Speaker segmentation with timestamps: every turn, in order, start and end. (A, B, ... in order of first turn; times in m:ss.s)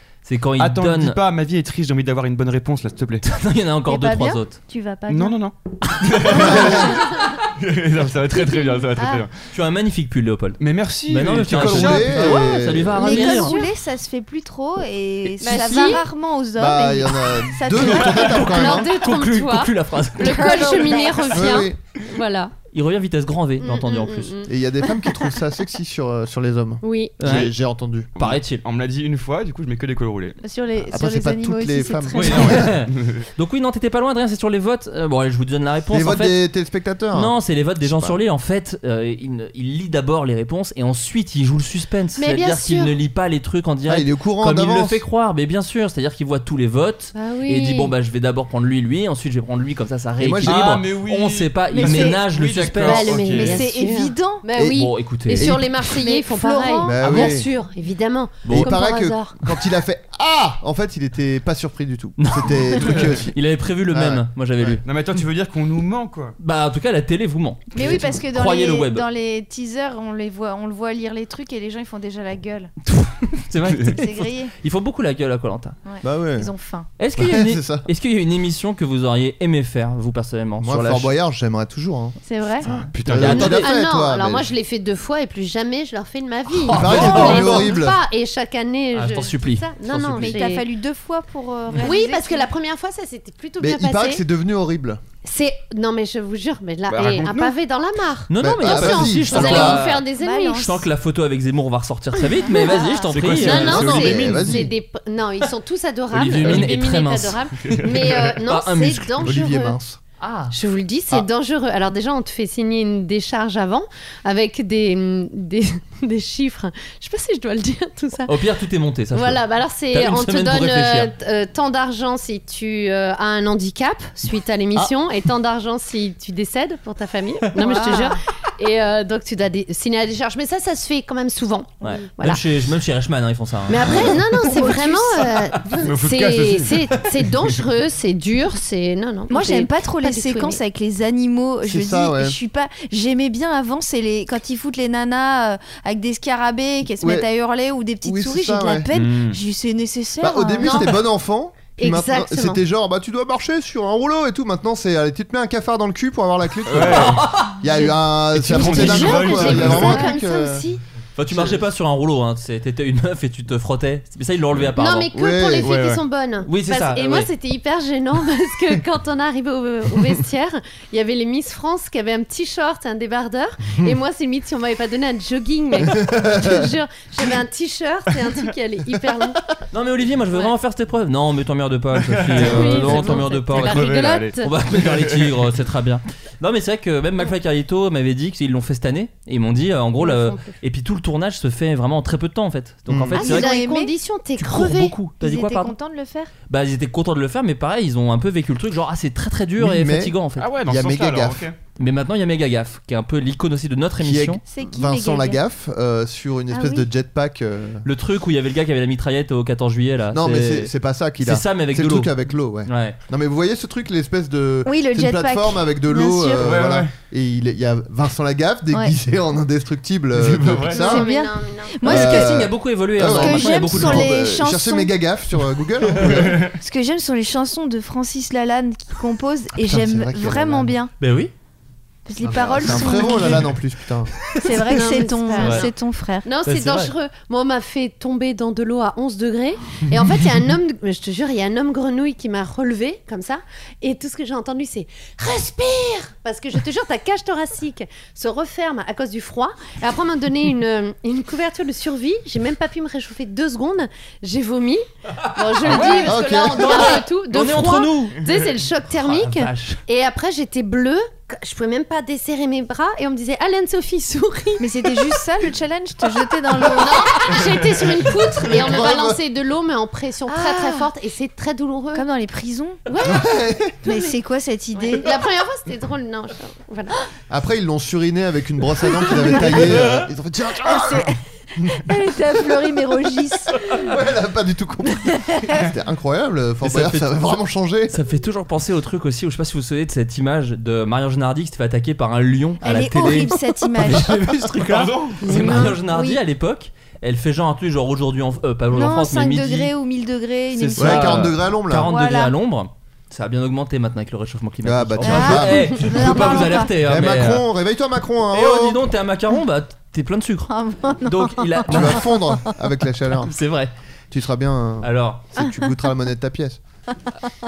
0:00.2-0:01.2 A
0:00.6-0:03.2 B
0:03.2-0:04.5 A
0:03.9-0:05.4 C
0:05.1-0:09.3 B
0:05.9-0:06.8 A
0:06.3-0:07.0 D
0:08.6-0:09.2 C
0:09.5-0:13.6 A
0:10.6-0:12.4 B
0:11.4-0:13.3 D
0:13.0-0:18.4 C
0:13.1-0:13.7 E
0:15.4-0:16.0 D
0:15.4-0:16.0 E
0:16.5-0:18.9 D
0:18.0-0:20.8 A
0:18.2-0:22.5 E
0:20.2-0:21.6 C
0:21.3-0:21.8 D
0:22.7-0:24.4 A
0:23.6-0:24.5 E
0:24.5-0:28.1 D
0:26.8-0:27.2 E
0:27.2-0:27.5 A
0:28.2-0:28.6 A
0:28.2-0:30.4 B
0:30.4-0:32.7 C
0:30.8-0:32.7 D
0:32.1-0:36.4 A
0:35.9-0:38.2 D
0:37.1-0:53.2 A
0:42.2-0:43.0 E
0:43.9-0:45.0 D
0:47.1-0:47.9 E
0:50.2-0:50.8 D
0:50.4-0:53.6 B
0:51.7-0:52.2 C
0:52.8-0:59.4 E
0:53.3-0:54.4 C
0:54.5-0:55.8 D
0:54.7-0:55.5 A
0:55.8-0:57.4 C
0:56.8-0:57.5 D
0:58.4-0:58.7 A
0:58.5-1:03.4 D
1:02.2-1:04.8 A
1:03.9-1:04.8 D
1:04.8-1:06.4 B
1:06.4-1:09.0 A
1:07.7-1:12.7 C
1:12.8-1:15.8 A
1:13.8-1:14.5 C
1:15.8-1:16.9 C
1:16.0-1:16.5 D
1:17.0-1:21.1 A
1:17.2-1:17.9 D
1:20.6-1:22.2 D
1:22.2-1:22.7 C
1:22.7-1:23.5 B
1:22.7-1:24.5 D
1:22.8-1:23.8 A
1:23.3-1:30.6 E
1:26.5-1:27.7 A
1:26.7-1:28.0 D
1:28.9-1:30.4 A
1:30.2-1:32.5 C
1:31.8-1:34.2 E
1:33.6-1:35.0 D
1:35.2-1:40.7 E
1:36.9-1:37.5 B
1:38.3-1:44.1 A
1:38.4-1:39.8 D
1:39.4-1:40.9 C
1:42.4-1:43.1 C
1:43.1-1:44.6 B
1:43.4-1:49.8 E
1:43.5-1:44.7 D
1:46.1-1:49.2 A
1:47.7-1:48.1 B
1:49.2-1:50.0 D
1:50.2-1:50.5 A
1:50.5-1:58.4 E
1:58.3-2:01.1 A
1:59.1-2:12.4 E
2:07.6-2:08.2 C
2:11.8-2:14.1 A
2:13.7-2:20.6 E
2:14.3-2:15.8 C
2:15.8-2:16.9 B
2:19.3-2:31.0 C
2:21.6-2:22.4 D
2:27.0-2:27.3 D
2:28.0-2:28.9 D
2:28.9-2:29.4 B
2:30.2-2:40.6 D
2:30.6-2:31.0 E
2:31.8-2:32.6 E
2:36.6-2:37.2 B
2:36.8-2:37.5 A
2:38.3-2:40.0 B
2:38.5-2:40.8 E
2:39.4-2:40.2 C
2:41.2-2:45.1 A
2:41.3-2:41.6 D
2:44.8-2:59.4 E
2:45.1-2:45.7 D
2:45.6-2:46.0 B
2:46.4-2:47.3 A
2:55.8-2:56.6 D
2:59.7-3:13.5 A
3:02.0-3:05.4 B
3:02.3-3:04.5 E
3:10.0-3:10.6 E
3:12.9-3:13.2 D
3:13.1-3:13.9 C
3:13.1-3:14.9 E
3:14.4-3:15.7 A
3:15.2-3:16.3 C
3:16.5-3:20.5 A
3:19.6-3:21.5 D
3:20.4-3:21.5 B
3:21.8-3:24.4 A
3:24.0-3:27.8 D
3:24.5-3:25.4 C
3:26.5-3:26.9 C
3:27.8-3:33.0 A
3:30.1-3:41.1 D
3:34.6-3:36.6 C
3:36.4-3:36.9 B
3:40.1-3:40.9 B
3:40.7-3:41.8 E
3:40.7-3:44.9 C
3:41.8-3:46.4 D
3:41.8-3:44.2 A
3:46.0-3:46.5 B
3:46.6-3:50.9 C
3:49.5-3:50.7 D
3:51.0-3:51.3 A
3:52.0-3:53.6 C
3:52.2-3:54.1 D
3:52.7-3:53.3 A
3:54.4-3:56.2 C
3:54.6-3:55.7 E
3:55.4-3:55.7 A
3:56.2-4:25.3 E
3:56.4-3:56.9 A
4:15.6-4:18.2 A
4:15.7-4:16.1 B
4:16.0-4:17.0 D
4:19.0-4:19.8 A
4:24.6-4:27.4 C
4:26.5-4:32.1 E
4:28.4-4:29.2 D
4:30.3-4:30.9 C
4:31.9-4:33.2 C
4:32.9-4:33.3 E
4:33.0-4:33.8 D
4:33.8-4:35.2 C
4:34.7-4:37.0 E
4:37.3-4:41.9 D
4:39.0-4:39.8 C
4:40.6-4:43.6 C
4:43.7-4:47.9 D
4:45.0-4:45.7 C
4:46.6-4:47.4 A
4:47.9-4:59.7 A
4:52.6-4:54.4 C
4:54.6-4:55.3 B
4:55.3-4:55.8 E
4:55.3-4:56.2 C
4:58.7-5:02.3 C
5:00.6-5:07.4 A
5:00.8-5:01.9 D
5:04.6-5:08.8 D
5:05.0-5:06.7 C
5:08.3-5:10.5 A
5:10.5-5:12.5 C
5:11.0-5:12.1 A
5:11.7-5:13.3 D
5:13.3-5:13.7 A
5:14.1-5:16.6 D
5:14.8-5:15.3 A
5:15.4-5:15.6 C